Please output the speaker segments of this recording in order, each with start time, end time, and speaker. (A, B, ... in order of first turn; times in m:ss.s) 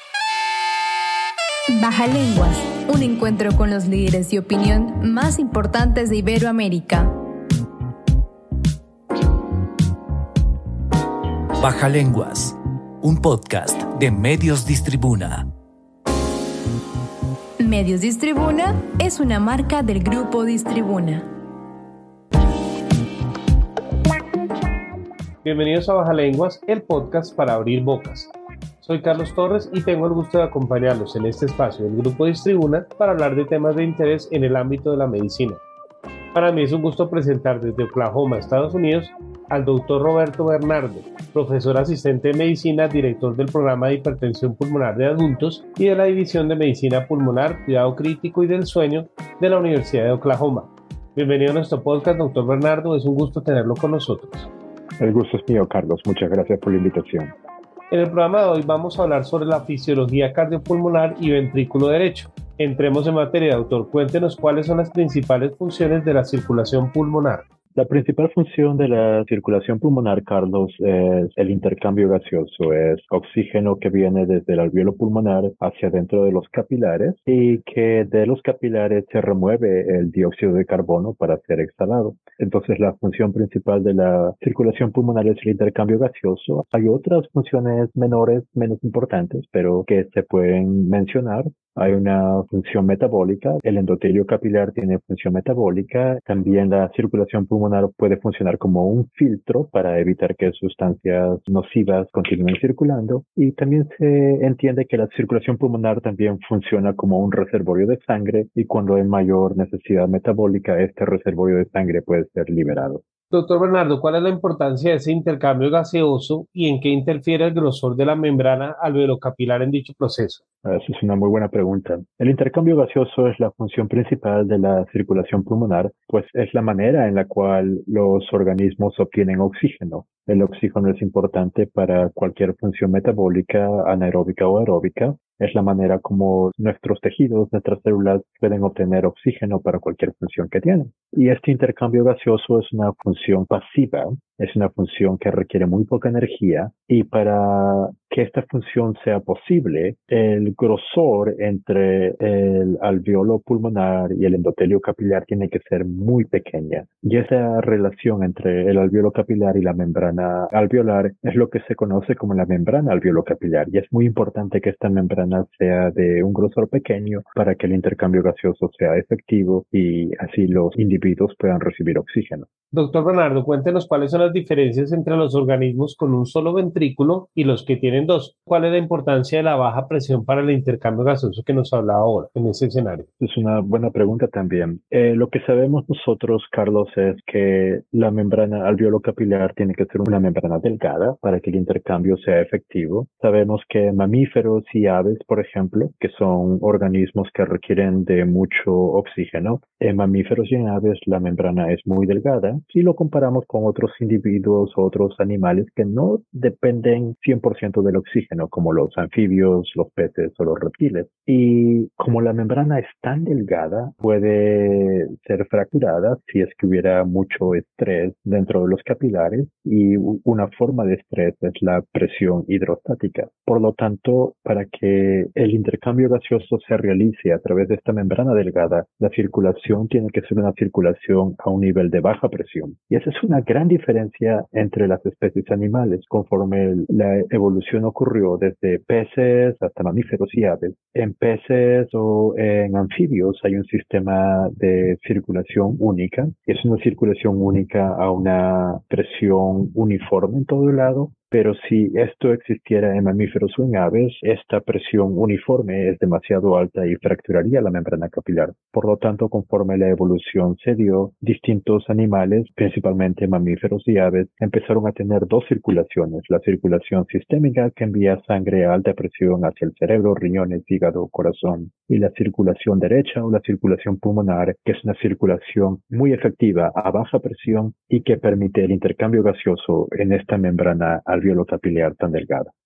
0:01.7-0:07.1 A
0:11.6-0:15.5 B
0:17.6-0:21.3 A
0:25.4-0:35.6 C
0:36.3-0:54.5 C
0:55.0-0:57.3 D
0:57.9-1:07.4 C
1:07.7-1:53.0 D
1:53.3-2:00.4 C
2:00.6-2:52.5 D
2:52.7-3:03.1 C
3:03.2-4:42.5 D